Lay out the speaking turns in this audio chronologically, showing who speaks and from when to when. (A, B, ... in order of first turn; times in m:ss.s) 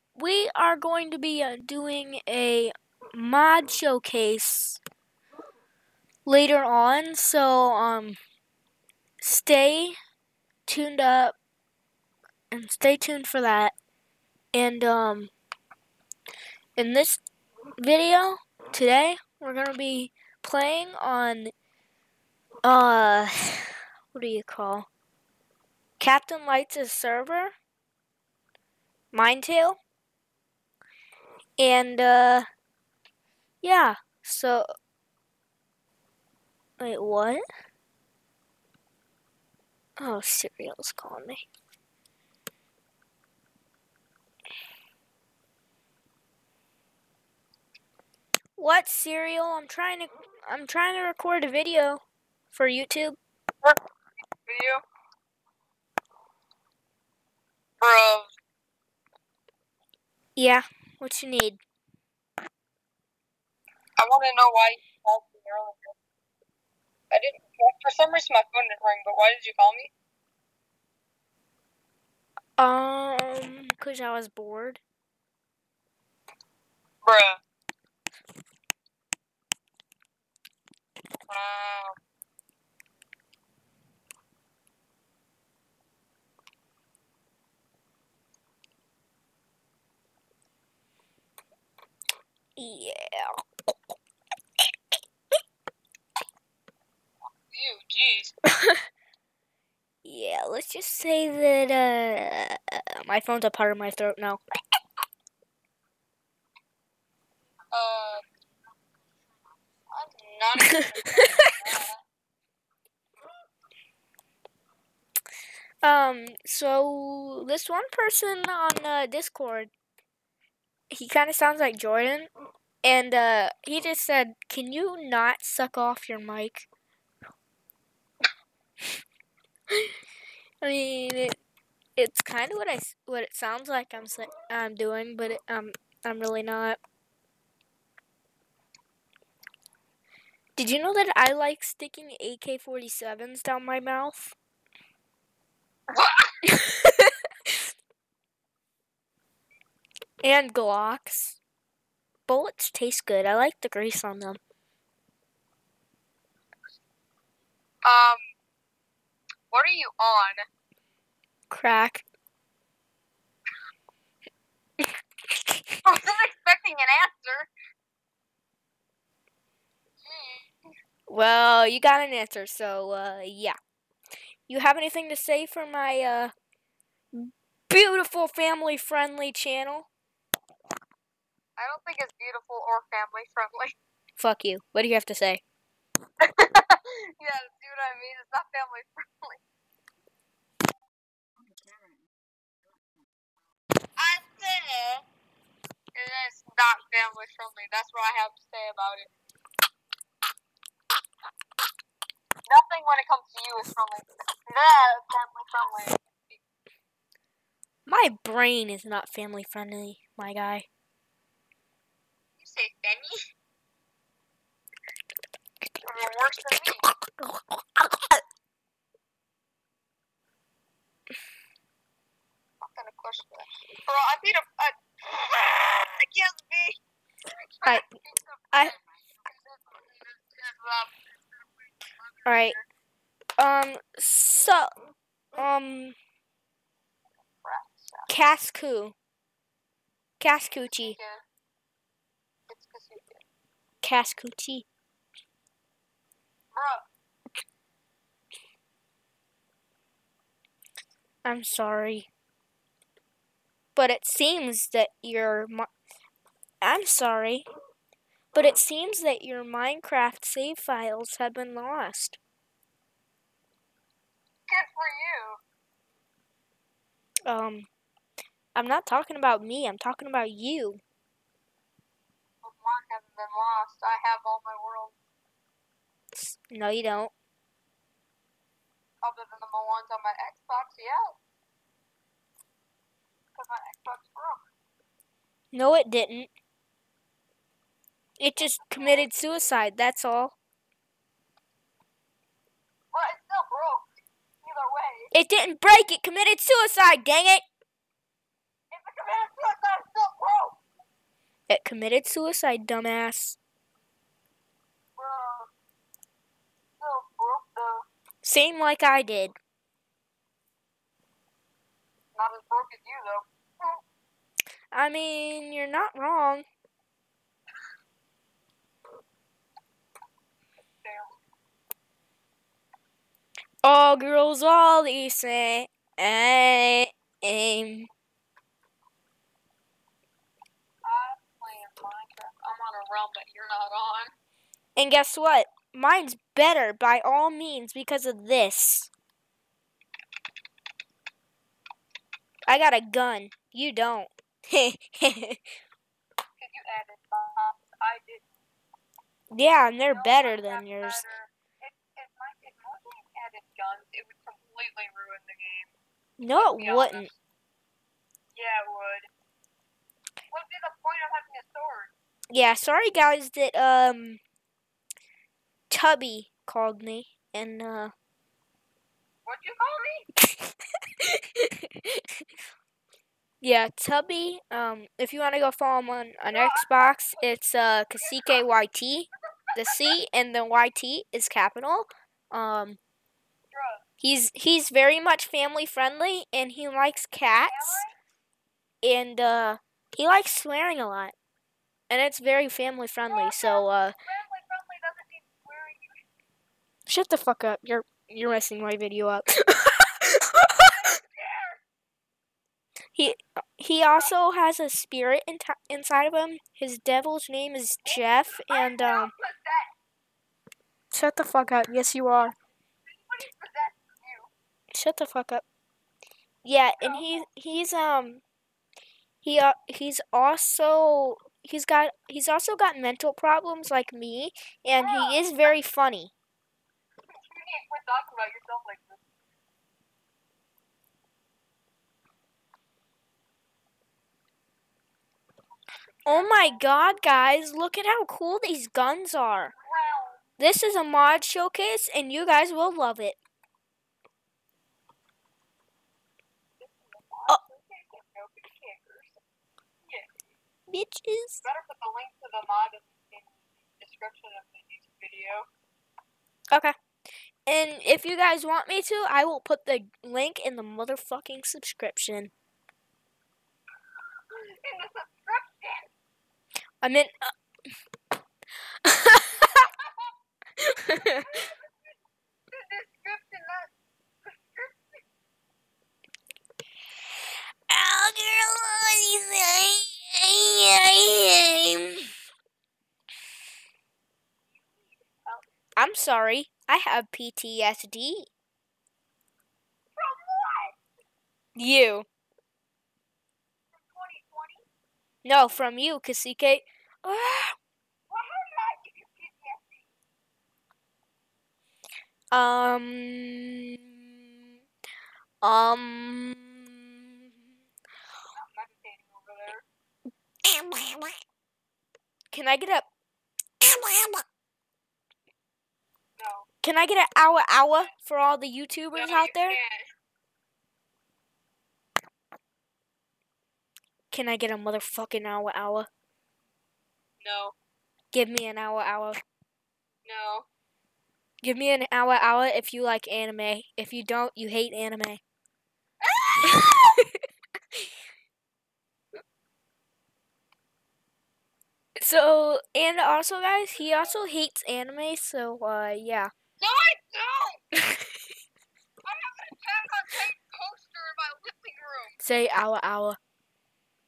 0:00.2-0:04.8 A
0:06.3-0:08.2 A
0:09.2-0:10.0 A
0:10.7-0:11.4 A
0:12.5-0:13.7 A
0:14.5-0:15.3 A
0:16.8-0:17.2 A
0:17.8-0:21.5 A
0:22.6-0:24.9 A
0:26.0-0:27.5 A
0:29.1-0:29.8 A
0:31.6-0:32.5 A
0:33.6-0:34.7 A
0:36.8-0:37.4 A
0:40.0-0:41.4 A
0:48.6-0:53.2 A
0:54.5-0:54.8 B
0:57.8-0:58.3 B
1:00.4-1:01.6 A
1:04.0-1:05.9 B
1:07.1-1:09.9 B
1:12.6-1:14.8 A
1:17.0-1:17.4 B
1:21.3-1:22.0 B
1:32.6-1:33.4 A
1:37.5-1:38.3 B
1:38.5-1:38.8 A
1:40.0-1:44.4 A
1:47.7-1:48.3 B
1:49.9-1:52.0 B
1:50.7-1:51.5 A
1:55.8-1:59.7 A
2:00.9-2:02.3 A
2:02.8-2:06.7 A
2:10.6-2:11.4 A
2:12.0-2:16.8 A
2:20.6-2:24.4 A
2:25.9-2:26.4 B
2:26.4-2:27.6 A
2:30.2-2:31.4 A
2:32.3-2:34.4 A
2:37.8-2:38.2 B
2:39.5-2:40.5 B
2:41.5-2:42.0 A
2:44.8-2:45.8 A
2:45.8-2:47.5 B
2:50.0-2:50.5 B
2:51.1-2:53.6 A
2:54.5-2:56.3 A
2:57.1-2:59.9 A
3:01.6-3:03.8 B
3:04.2-3:05.4 A
3:06.8-3:09.4 B
3:14.0-3:15.0 B
3:16.0-3:19.1 B
3:22.5-3:26.4 B
3:27.9-3:30.7 A
3:32.4-3:33.2 B
3:35.8-3:36.9 B
3:36.8-3:38.2 A
3:42.6-3:52.6 B
3:52.3-3:52.6 A
3:53.4-3:54.7 A
3:55.3-3:56.0 A
3:57.4-3:58.1 B
3:58.1-3:59.0 A
4:00.2-4:01.0 A
4:00.7-4:01.2 B
4:02.5-4:03.2 B
4:03.8-4:04.7 A
4:06.5-4:06.9 B
4:11.2-4:12.1 A
4:13.8-4:15.7 A
4:16.6-4:17.4 A
4:18.3-4:22.2 A
4:24.5-4:25.4 B
4:27.3-4:27.7 A
4:28.6-4:30.8 A
4:32.4-4:35.0 B
4:36.1-4:37.1 A
4:39.0-4:41.2 B
4:43.4-4:44.5 B
4:45.5-4:46.3 A
4:48.2-4:50.4 A
4:48.4-4:49.1 B
4:52.9-4:53.9 B
4:54.4-4:55.1 B
4:55.1-4:57.4 A
4:58.7-5:00.6 B
5:01.5-5:03.4 A
5:05.0-5:05.5 B
5:06.8-5:07.9 B
5:08.2-5:09.4 A
5:12.2-5:13.8 B
5:14.7-5:16.5 A
5:20.8-5:21.2 B
5:23.6-5:27.9 A
5:30.8-5:34.1 B
5:34.8-5:38.9 A
5:42.5-5:45.4 A
5:46.4-5:48.2 B
5:49.3-5:51.0 A
5:49.9-5:55.7 B
5:56.2-5:57.1 A
5:56.4-5:57.2 B
5:58.3-5:59.1 B
6:00.3-6:01.9 B
6:02.3-6:04.2 A
6:05.7-6:07.9 A
6:09.2-6:10.1 B
6:11.0-6:12.2 A
6:13.4-6:22.8 A
6:16.3-6:17.3 B
6:18.0-6:18.6 B
6:19.7-6:19.9 B
6:23.5-6:23.8 B
6:24.0-6:27.8 A
6:27.4-6:27.9 B
6:28.8-6:31.2 A
6:31.9-6:34.0 A
6:33.1-6:36.0 B
6:36.9-6:40.7 A
6:40.6-6:41.6 B
6:43.0-6:49.1 A
6:43.9-6:44.2 B
6:47.9-6:49.7 B
6:50.9-6:52.4 A
6:52.8-6:54.3 B
6:54.7-6:55.4 A
6:56.4-6:58.2 A
6:56.8-6:57.3 B
6:59.2-7:06.1 A
7:04.8-7:05.6 B
7:07.1-7:09.0 B
7:16.0-7:16.6 B
7:16.1-7:19.5 A
7:19.6-7:20.2 B
7:20.4-7:23.2 A
7:26.6-7:29.2 B
7:29.9-7:30.2 B
7:30.7-7:31.4 A
7:31.4-7:35.5 B
7:37.5-7:42.3 A
7:44.3-7:45.9 B
7:46.8-7:47.3 A
7:48.8-7:49.7 A
7:49.6-7:50.1 B
7:50.6-7:51.3 A
7:51.0-7:52.0 B
7:52.5-7:53.7 B
7:54.2-7:55.0 B
7:57.7-8:02.1 A
8:04.6-8:05.5 B
8:05.8-8:08.3 A
8:10.0-8:10.8 B
8:11.6-8:12.1 A
8:13.7-8:14.7 B
8:15.2-8:17.6 A
8:18.1-8:19.9 B
8:22.3-8:24.1 A
8:25.4-8:27.0 A
8:28.3-8:29.6 B
8:30.4-8:31.2 A
8:32.3-8:32.9 A
8:33.6-8:34.2 A
8:36.2-8:36.5 B
8:36.6-8:39.6 A
8:39.0-8:39.9 B
8:44.1-8:45.9 A
8:47.2-8:47.6 B
8:48.1-8:49.2 A
8:50.0-8:50.5 B
8:51.4-8:55.2 A
8:56.0-8:57.0 B
8:56.4-8:57.2 A
9:02.0-9:06.3 A
9:06.6-9:07.6 B
9:09.0-9:12.2 B
9:12.2-9:13.2 A